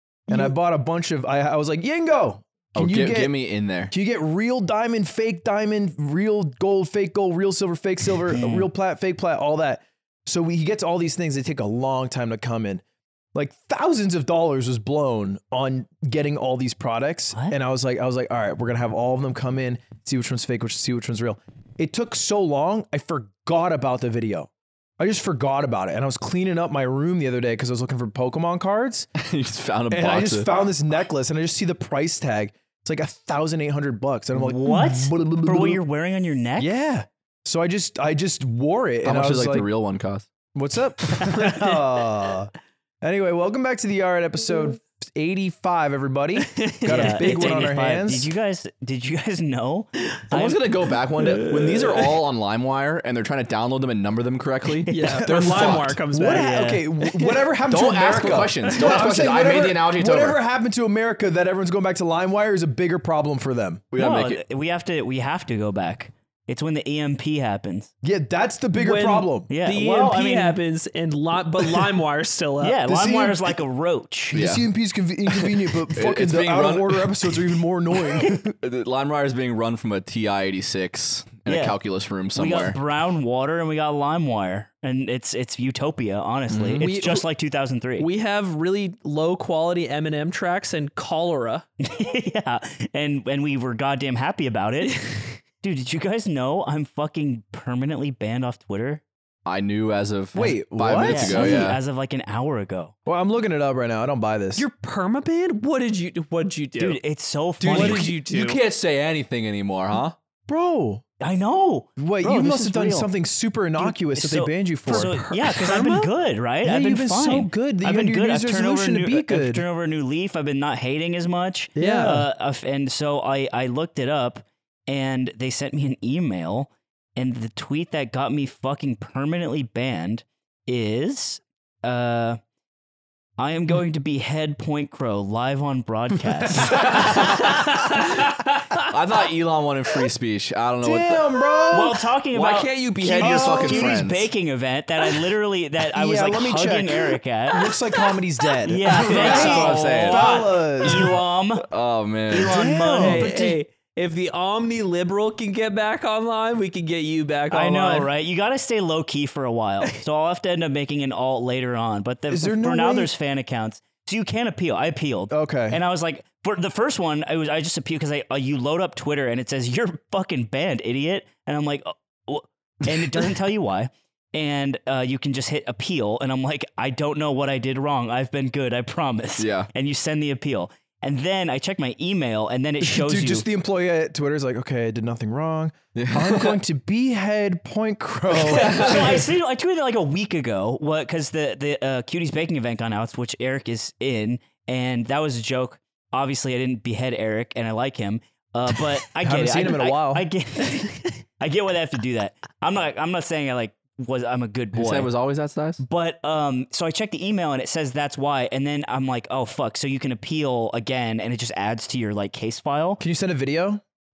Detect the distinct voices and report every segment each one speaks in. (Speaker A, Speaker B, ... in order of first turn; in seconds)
Speaker A: 0.3-0.5, 46.4-47.4, 51.2-52.2, 54.9-57.5, 58.7-59.0, 68.8-73.4, 88.0-91.7, 94.8-95.4, 104.5-107.0, 107.7-108.6, 114.9-116.1, 121.8-122.2, 148.8-149.6, 153.0-158.1, 188.7-189.0
Speaker B: 0.3-3.4, 3.9-12.8, 13.3-29.1, 29.9-35.8, 36.6-39.7, 40.5-42.5, 43.0-48.3, 55.2-63.8, 68.0-69.5, 74.3-78.5, 100.3-101.7, 103.1-104.7, 107.7-108.0, 110.5-111.0, 112.0-115.2, 116.6-119.7, 121.8-122.2, 136.4-136.8, 140.8-142.1, 143.2-144.0, 145.9-151.2, 152.4-153.3, 162.3-163.1, 165.3-165.8, 182.8-189.2, 199.2-200.2, 213.0-213.8
Speaker C: 2.8-3.9, 29.2-30.5, 39.0-40.3, 50.3-56.0, 57.7-60.4, 63.9-64.4, 74.3-74.7, 75.3-77.5, 78.6-82.8, 86.5-87.2, 99.4-101.8, 107.6-110.2, 136.7-137.8, 138.9-141.2, 142.3-144.3, 148.9-150.3, 151.6-152.6, 179.4-179.7, 185.9-186.6, 188.4-189.2, 204.7-205.8
Speaker D: 8.3-8.7, 34.3-36.7, 46.9-50.6, 56.2-56.8, 64.0-67.9, 69.5-70.6, 72.6-74.4, 81.5-81.8, 82.3-88.1, 91.8-95.0, 95.6-99.0, 101.0-102.9, 106.8-108.1, 111.2-113.1, 113.8-132.4, 133.4-137.3, 141.7-147.8, 148.7-151.7, 152.3-153.6, 157.5-183.5, 188.5-205.1, 205.8-213.0